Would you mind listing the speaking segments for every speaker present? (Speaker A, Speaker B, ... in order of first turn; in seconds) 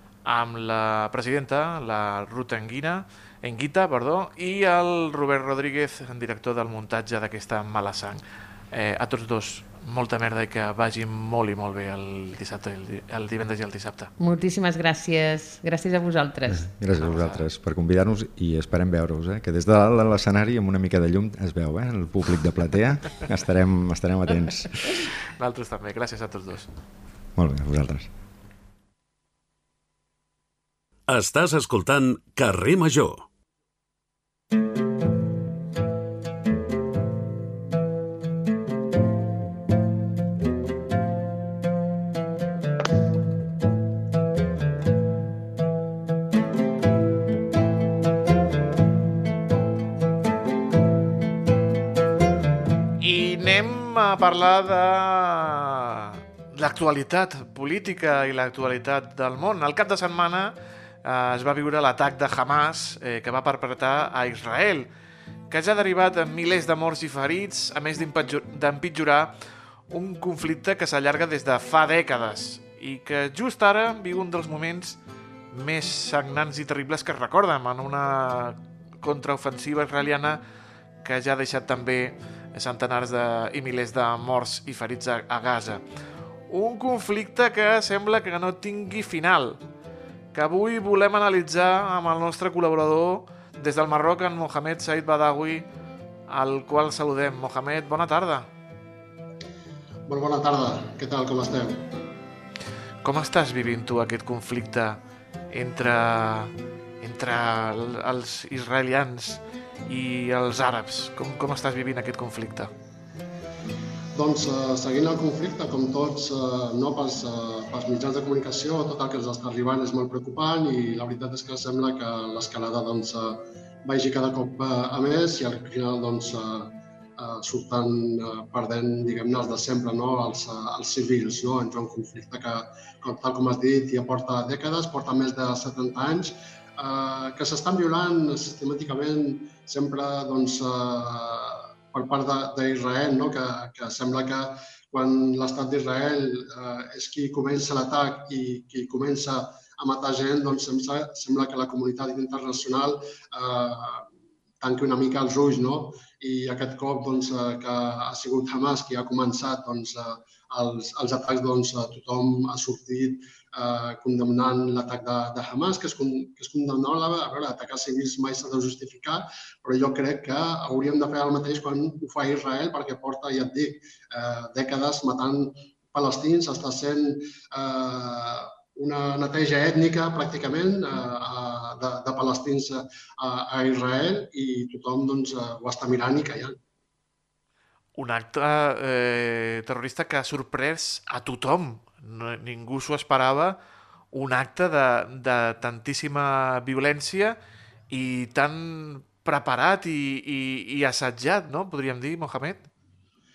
Speaker A: 0.2-8.2, 8.7-14.1, 17.0-17.4, 25.4-26.7, 53.0-64.9, 65.5-69.3, 69.9-75.0, 75.5-80.4, 81.0-85.8, 86.5-89.6, 90.3-95.7, 96.3-98.5, 103.0-105.0, 105.5-112.7, 188.0-193.6, 194.1-197.3, 197.9-202.6
Speaker B: 14.2-16.7
Speaker C: 16.5-24.7, 27.4-28.1
Speaker D: 31.1-33.2
Speaker E: 100.1-101.8, 114.1-154.1, 154.6-186.6